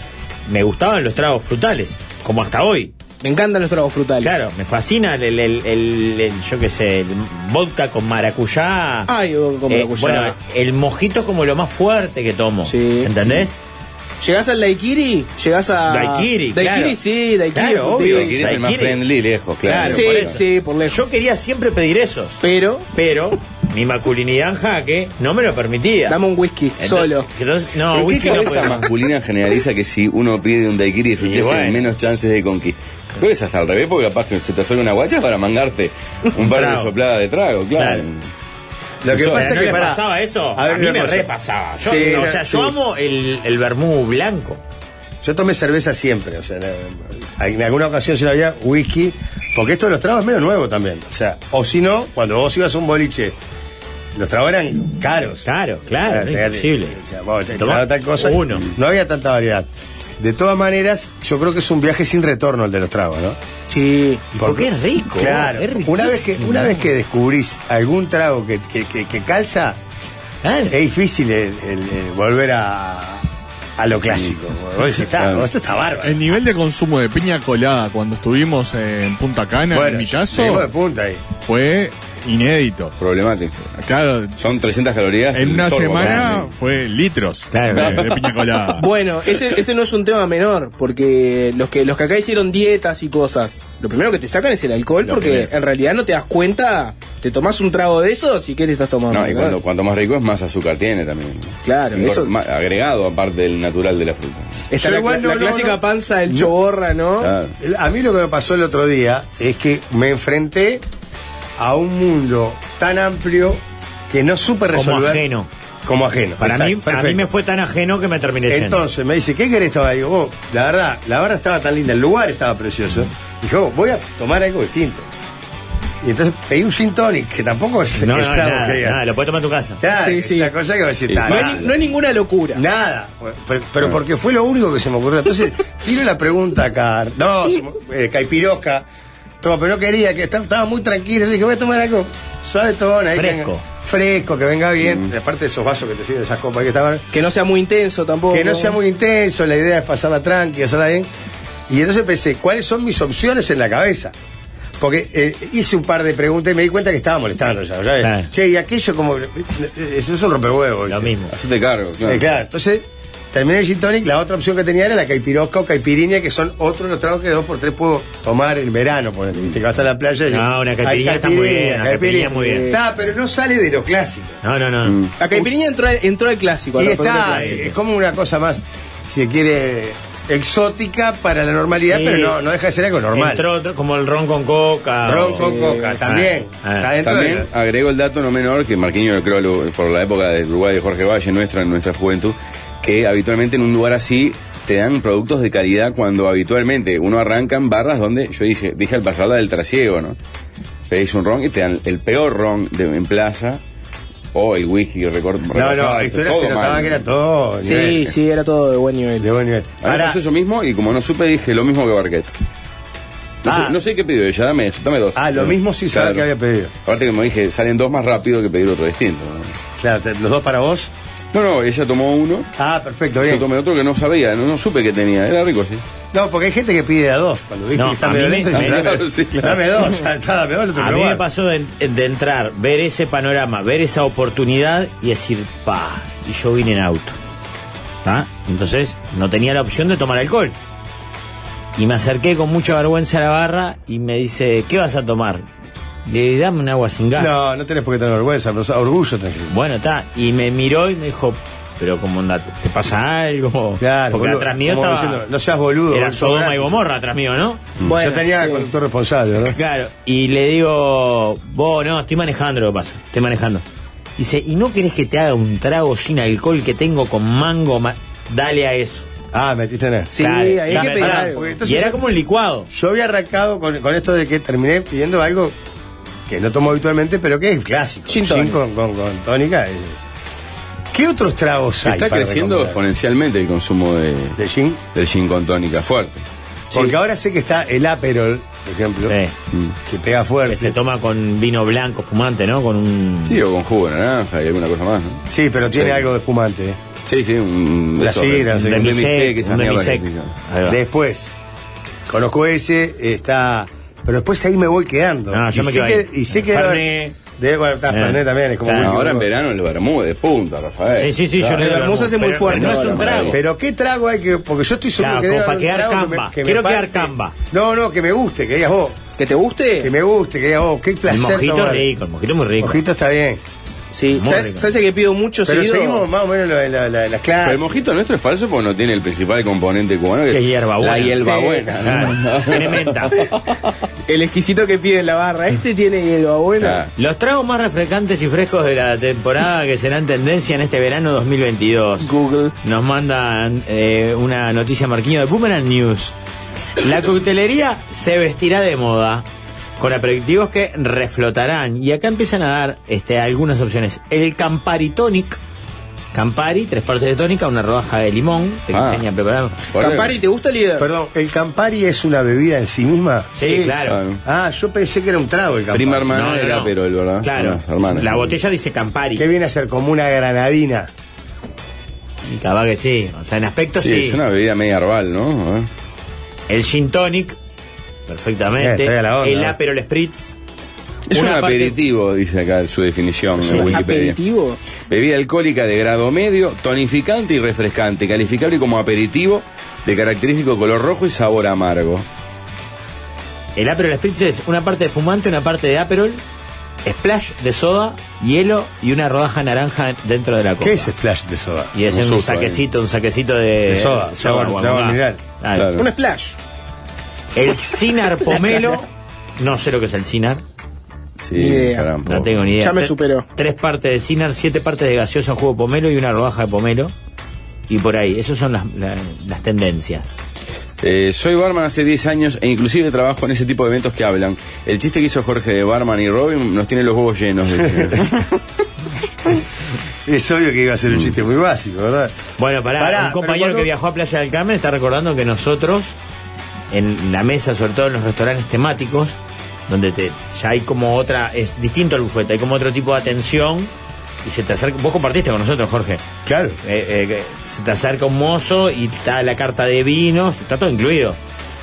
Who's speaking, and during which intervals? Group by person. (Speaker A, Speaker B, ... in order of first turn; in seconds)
Speaker A: 0.5-2.9, 4.2-9.1, 9.7-13.6, 15.9-17.0, 17.5-19.0, 19.6-22.4, 22.9-26.2, 26.8-28.9, 31.2-31.9, 36.4-36.9, 37.7-38.0, 39.1-44.6, 55.4-57.0, 57.5-58.6, 64.3-66.9, 70.4-70.7, 86.0-86.3, 87.5-88.0, 114.7-115.5, 116.4-118.8, 127.9-129.8, 143.1-143.6, 158.0-158.3, 160.9-161.3, 170.3-172.7, 174.4-175.0, 177.3-177.7, 181.9-182.4, 183.1-185.5, 186.0-186.9, 227.7-229.0, 230.8-237.2, 238.0-240.6, 241.8-245.4, 246.1-247.3, 249.5-255.2, 255.9-257.7, 259.5-263.6, 264.2-269.1, 270.2-272.7, 289.1-289.3, 290.5-293.4, 298.5-300.8, 305.3-307.1, 307.9-308.9, 310.9-313.4, 315.0-317.4, 321.1-322.8, 324.1-324.7, 330.3-333.2, 336.9-342.1, 342.6-346.1, 346.8-349.2, 349.8-355.4, 356.1-359.6, 363.3-364.0, 366.1-369.2, 372.2-374.2, 376.5-377.4, 378.1-380.3, 381.1-381.8, 383.4-383.8, 393.6-396.2, 396.8-400.9, 401.7-405.7, 407.3-408.9, 409.4-410.4, 412.1-416.9, 417.7-420.2, 432.4-436.0, 436.7-443.7, 444.2-446.0, 446.6-451.2
Speaker B: 3.2-4.4, 9.1-10.3, 12.6-13.1, 14.2-18.5, 19.8-21.0, 22.4-22.9, 26.1-27.3, 63.7-64.2, 88.8-99.6, 101.6-102.3, 104.7-107.3, 129.9-130.5, 131.3-132.6, 147.1-148.8, 172.5-172.8, 175.2-177.6, 185.3-186.0, 207.6-209.3, 257.9-258.7, 270.1-271.6, 278.1-278.6, 286.7-286.9, 311.5-313.2, 319.2-319.9, 323.9-326.1, 331.2-332.1, 334.1-336.8, 342.0-342.5, 359.8-360.9, 383.7-384.6, 405.8-406.4, 408.2-408.8, 411.3-411.9, 412.6-413.3
Speaker C: 18.1-20.4, 27.9-38.3, 39.0-39.6, 75.0-75.5, 83.0-83.7, 84.4-86.5, 87.7-88.6, 99.1-104.7, 107.2-107.5, 131.1-131.7, 144.8-145.1, 161.3-162.2, 174.8-175.1, 187.0-200.2, 200.9-203.6, 204.3-207.0, 209.8-212.3, 213.4-216.2, 216.8-219.6, 221.3-222.5, 223.2-225.8, 228.5-229.6, 281.8-284.4, 284.9-286.2, 293.2-296.1, 297.1-300.3, 308.8-313.4, 327.4-333.6, 336.6-336.9, 358.7-359.0, 359.7-360.1, 363.8-364.2, 365.7-368.4, 373.7-375.7, 381.1-384.2, 384.9-392.1, 401.9-402.6, 405.5-405.9, 411.2-412.3, 420.8-428.2
Speaker D: 39.0-42.8, 45.2-53.4, 54.1-55.5, 56.0-63.4, 64.4-69.8, 70.7-76.2, 79.7-81.2, 104.7-106.5, 107.6-110.8, 111.6-115.2, 115.8-117.2, 118.5-125.1, 126.0-129.0, 129.8-131.6, 132.5-138.8, 139.4-147.0, 148.3-151.1, 151.7-154.1, 154.8-161.1, 162.0-174.4, 176.8-183.4, 185.0-187.5, 205.5-208.0, 209.2-210.2, 213.4-213.8, 215.1-216.7, 219.8-220.9, 222.6-223.4, 226.1-231.2, 247.2-249.5, 253.8-256.8, 257.8-259.6, 269.3-270.1, 270.7-272.0, 272.7-275.6, 276.3-280.0, 280.9-282.8, 284.4-284.8, 286.7-289.1, 289.9-290.8, 295.3-296.8, 298.0-298.9, 300.6-301.3, 302.1-309.3, 313.3-319.0, 319.8-321.9, 322.6-323.4, 325.4-327.8, 360.8-366.1, 369.1-370.9, 378.6-379.6, 400.6-401.7, 403.7-405.2, 430.1-432.1, 432.7-433.7, 446.2-446.6
Speaker E: 76.0-80.7, 81.3-82.9, 83.7-84.4, 85.3-88.9